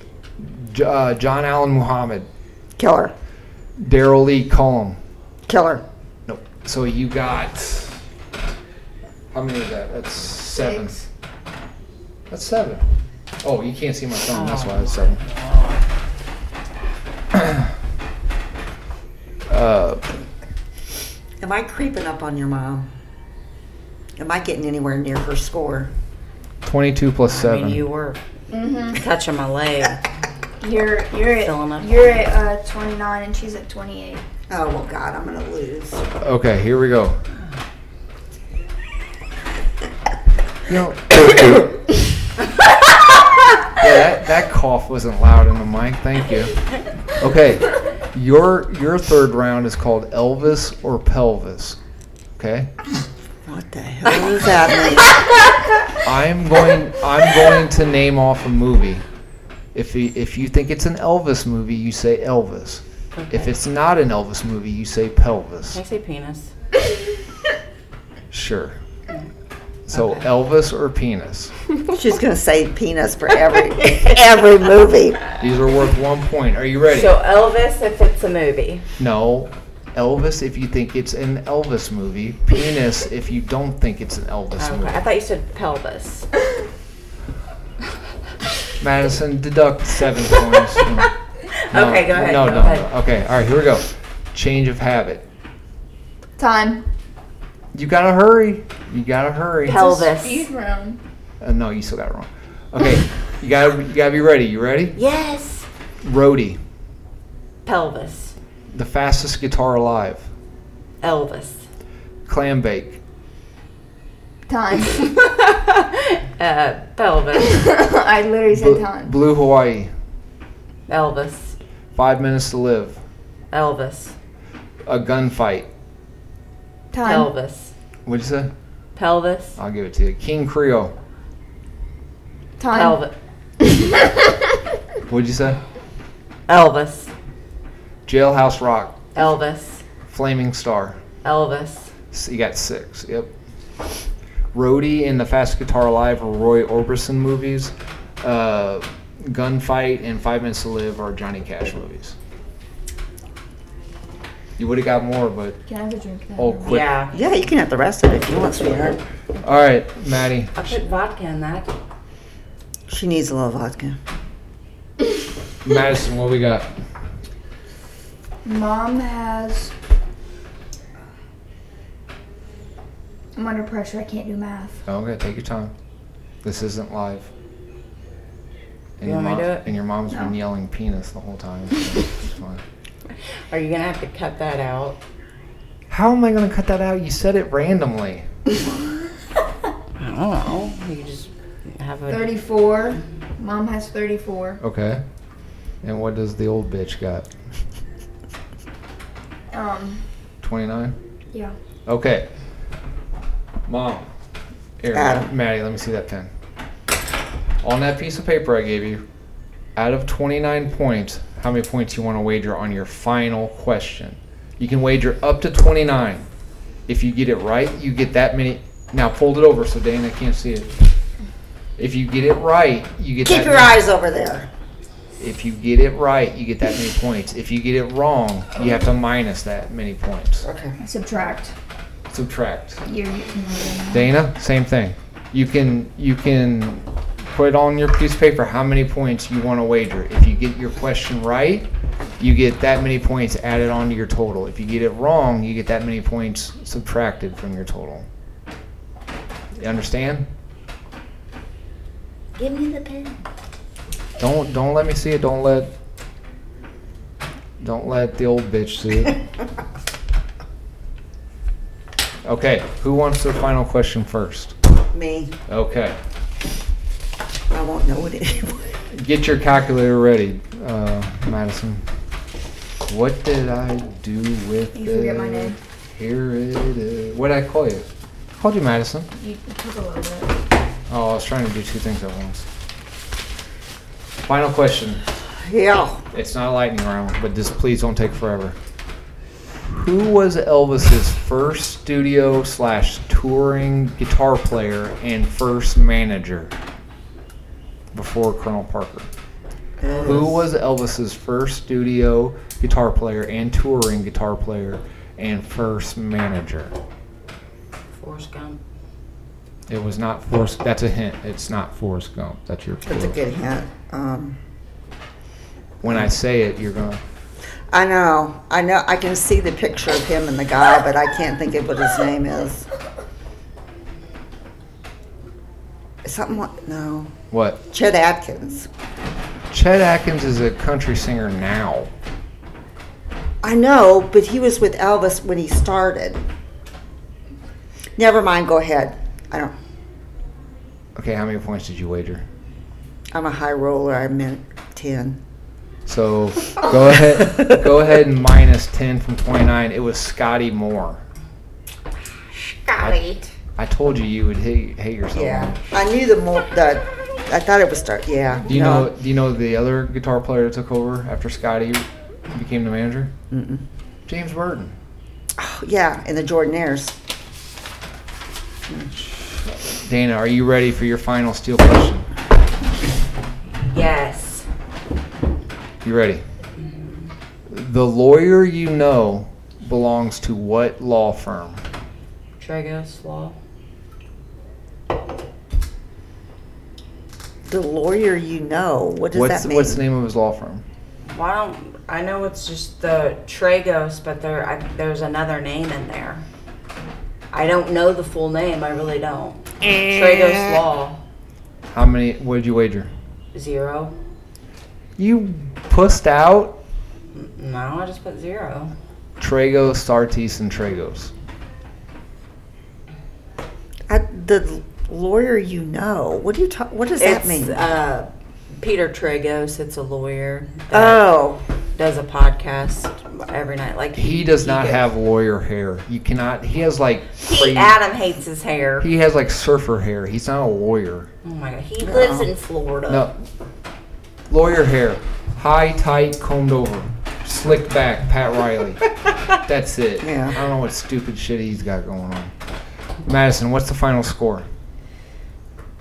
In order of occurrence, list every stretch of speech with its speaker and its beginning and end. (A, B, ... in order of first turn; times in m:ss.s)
0:00.4-0:02.3 A
0:02.8-0:03.1 B
0:03.8-0:05.0 A
0:05.5-0:05.8 B
0:06.3-0:08.0 A
0:09.3-0:11.1 A
0:12.3-0:12.8 A
0:13.4-0:15.2 A
0:14.3-0:15.8 C
0:17.3-0:17.7 A
0:19.5-0:20.0 A
0:21.4-0:22.9 B
0:24.2-0:25.9 B
0:26.6-0:27.8 A
0:27.3-0:28.2 C
0:28.5-0:29.0 D
0:28.9-0:30.0 C
0:30.6-0:34.2 D
0:31.3-0:32.3 C
0:34.5-0:36.1 B
0:36.2-0:37.2 A
0:40.7-0:41.6 A
0:43.8-0:46.5 A
0:47.2-0:51.8 A
0:52.4-0:52.7 A
0:53.4-0:55.1 B
0:56.0-0:59.0 A
0:59.7-1:05.8 A
1:03.1-1:03.5 C
1:05.7-1:06.5 C
1:08.3-1:08.8 A
1:09.9-1:11.5 A
1:09.9-1:10.2 C
1:11.9-1:15.2 B
1:15.4-1:17.1 A
1:16.9-1:18.9 C
1:19.0-1:25.0 A
1:24.6-1:26.3 C
1:28.8-1:31.1 A
1:31.5-1:32.9 C
1:31.7-1:35.2 A
1:36.4-1:36.8 D
1:37.7-1:39.9 A
1:39.7-1:40.5 C
1:39.7-1:41.0 D
1:41.4-1:45.0 A
1:45.0-1:45.7 C
1:46.0-1:46.6 A
1:47.6-1:48.4 C
1:48.7-1:50.3 A
1:51.0-1:51.6 C
1:52.3-1:53.0 A
1:54.5-1:55.1 D
1:54.9-1:57.6 C
1:57.4-1:59.1 D
1:58.5-1:59.9 A
2:00.9-2:01.6 C
2:02.0-2:03.0 A
2:03.5-2:04.2 C
2:04.9-2:05.7 A
2:06.9-2:07.3 D
2:07.0-2:07.7 C
2:08.1-2:08.5 A
2:09.0-2:09.6 C
2:09.6-2:10.9 A
2:12.6-2:13.0 D
2:12.7-2:13.1 C
2:13.6-2:14.3 D
2:15.1-2:15.6 A
2:16.5-2:17.1 C
2:18.1-2:19.0 A
2:19.2-2:19.8 C
2:20.1-2:21.0 A
2:21.2-2:21.9 C
2:22.1-2:23.3 A
2:24.5-2:32.2 A
2:34.6-2:35.6 A
2:35.7-2:36.8 D
2:36.4-2:36.9 A
2:36.7-2:37.1 C
2:37.1-2:39.0 B
2:39.4-2:40.8 A
2:40.6-2:41.7 C
2:42.9-2:44.0 B
2:45.6-2:46.7 A
2:48.4-2:49.7 D
2:53.4-2:54.8 D
2:54.9-2:55.7 A
2:56.4-2:57.3 A
2:59.0-3:02.6 A
2:59.0-2:59.7 C
3:03.5-3:05.0 C
3:05.9-3:08.3 A
3:10.0-3:12.4 C
3:12.1-3:14.6 D
3:14.6-3:15.0 A
3:15.8-3:17.3 A
3:19.5-3:20.0 D
3:20.4-3:21.0 A
3:21.9-3:22.3 A
3:23.7-3:24.1 A
3:24.8-3:26.3 A
3:24.9-3:25.3 B
3:27.6-3:29.0 A
3:29.8-3:36.3 A
3:36.9-3:40.8 A
3:41.8-3:43.8 A
3:43.2-3:44.5 B
3:45.2-3:50.5 A
3:50.4-3:50.8 B
3:50.8-3:51.6 D
3:52.1-3:52.8 A
3:52.9-3:54.1 D
3:53.9-4:01.7 A
4:02.2-4:08.1 A
4:09.6-4:10.3 A
4:12.4-4:13.1 C
4:14.2-4:15.7 A
4:17.6-4:19.2 A
4:22.2-4:24.6 A
4:24.9-4:25.4 B
4:25.5-4:26.0 A
4:27.5-4:28.8 B
4:28.9-4:31.8 A
4:32.9-4:39.1 A
4:34.8-4:35.6 D
4:39.2-4:40.4 D
4:40.9-4:42.5 A
4:44.2-4:45.0 A
4:45.4-4:46.0 B
4:46.1-4:48.6 A
4:49.7-4:56.5 A
4:57.9-4:59.1 A
4:59.8-5:00.4 B
5:00.0-5:06.8 A
5:08.0-5:08.6 C
5:09.7-5:13.2 A
5:12.9-5:14.4 B
5:15.8-5:17.0 A
5:17.7-5:22.7 B
5:26.0-5:27.1 B
5:27.3-5:27.6 A
5:27.7-5:28.7 B
5:29.5-5:31.9 A
5:33.4-5:36.2 B
5:38.0-5:39.5 B
5:41.0-5:42.3 A
5:43.1-5:45.2 B
5:45.9-5:51.0 A
5:52.4-5:53.2 C
5:52.8-5:53.0 A
5:53.6-5:55.6 A
5:55.1-5:58.9 B
5:58.5-6:03.1 A
6:03.3-6:03.6 B
6:04.1-6:04.8 A
6:05.4-6:07.0 B
6:08.7-6:08.9 B
6:09.6-6:12.1 A
6:13.5-6:14.5 C
6:15.8-6:16.2 A
6:16.6-6:17.1 C
6:17.5-6:21.6 A
6:22.4-6:23.4 C
6:27.5-6:29.8 B
6:29.1-6:30.6 A
6:31.1-6:36.2 C
6:37.3-6:41.0 C
6:39.7-6:40.0 B
6:41.7-6:42.9 A
6:43.3-6:44.0 C
6:45.0-6:46.6 A
6:47.1-6:48.7 C
6:49.2-6:51.1 A
6:53.9-6:57.6 B
6:57.0-7:01.1 C
7:00.7-7:01.4 B
7:01.8-7:04.9 C
7:04.0-7:07.8 A
7:07.2-7:08.9 C
7:08.8-7:11.1 A
7:11.2-7:13.1 C
7:11.8-7:12.3 B
7:12.9-7:13.2 A
7:14.3-7:18.8 A
7:19.4-7:22.3 A
7:20.0-7:20.4 B
7:23.0-7:24.5 A